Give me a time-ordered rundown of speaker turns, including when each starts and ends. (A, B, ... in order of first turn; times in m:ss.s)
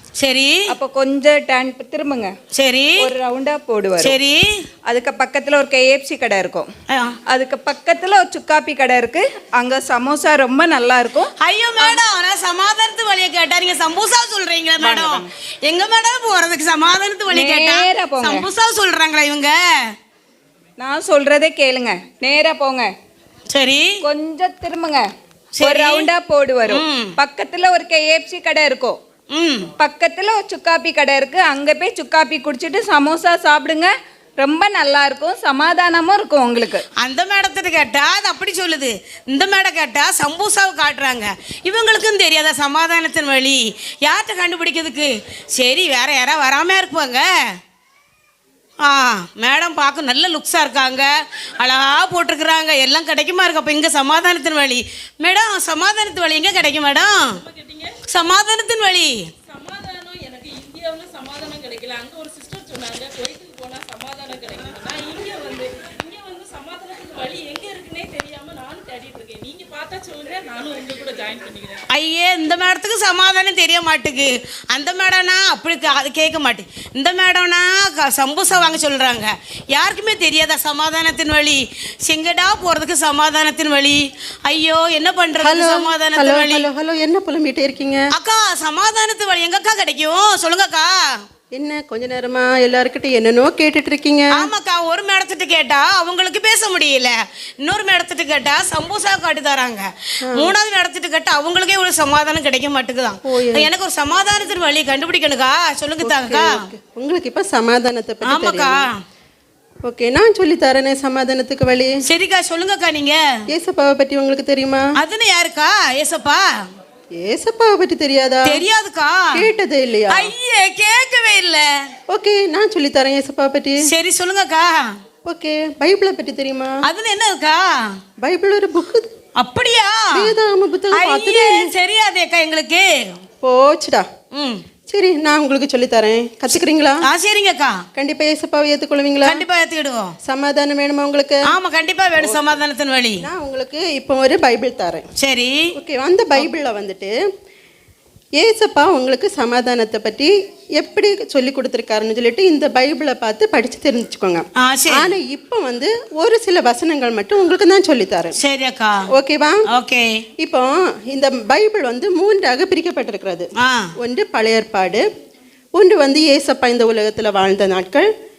0:00.2-0:00.6 A
0:00.7-0:02.3 B
0:02.5-0:03.0 A
0:03.0-0:04.2 B
0:04.0-0:04.6 A
0:04.9-0:06.7 B
0:06.9-0:07.2 A
0:07.3-0:12.0 B
0:11.4-0:19.6 A
0:14.8-0:15.3 B
0:17.3-0:18.5 B
0:20.8-0:22.9 B
0:23.5-0:23.9 A
0:24.0-0:25.0 B
0:25.5-0:26.0 A
0:25.6-0:29.0 B
0:26.7-0:27.1 A
0:29.3-0:29.7 A
0:29.8-0:36.8 B
0:37.0-0:47.3 A
0:48.8-0:57.3 A
0:57.5-0:58.0 C
0:58.1-0:59.2 A
0:59.5-1:11.8 C
1:11.9-1:26.6 A
1:25.4-1:28.0 D
1:28.1-1:31.0 A
1:31.5-1:34.5 D
1:34.4-1:46.5 A
1:40.2-1:40.5 D
1:43.2-1:43.7 D
1:46.0-1:48.8 D
1:48.3-1:48.9 A
1:49.8-1:51.9 D
1:52.0-1:53.2 A
1:53.5-1:54.9 D
1:55.0-1:56.4 A
1:57.2-1:58.6 D
1:58.4-1:59.4 A
1:59.3-2:00.3 D
2:00.1-2:01.9 A
2:02.1-2:03.8 D
2:03.9-2:04.8 A
2:05.2-2:06.8 D
2:06.8-2:07.6 A
2:08.2-2:09.1 D
2:09.4-2:10.3 A
2:10.1-2:11.7 D
2:10.9-2:12.8 A
2:13.4-2:14.0 D
2:14.3-2:14.6 A
2:14.9-2:17.0 D
2:17.0-2:17.8 A
2:18.0-2:19.4 D
2:19.2-2:20.1 A
2:20.2-2:21.5 D
2:21.5-2:23.2 A
2:22.2-2:22.5 D
2:23.2-2:25.0 D
2:25.2-2:25.6 A
2:25.8-2:27.1 D
2:28.4-2:38.4 D
2:34.6-2:35.1 A
2:38.4-2:39.0 A
2:39.1-2:39.6 D
2:39.7-2:40.1 A
2:40.4-2:43.5 D
2:43.6-2:43.9 A
2:44.0-2:45.0 D
2:45.8-2:48.1 D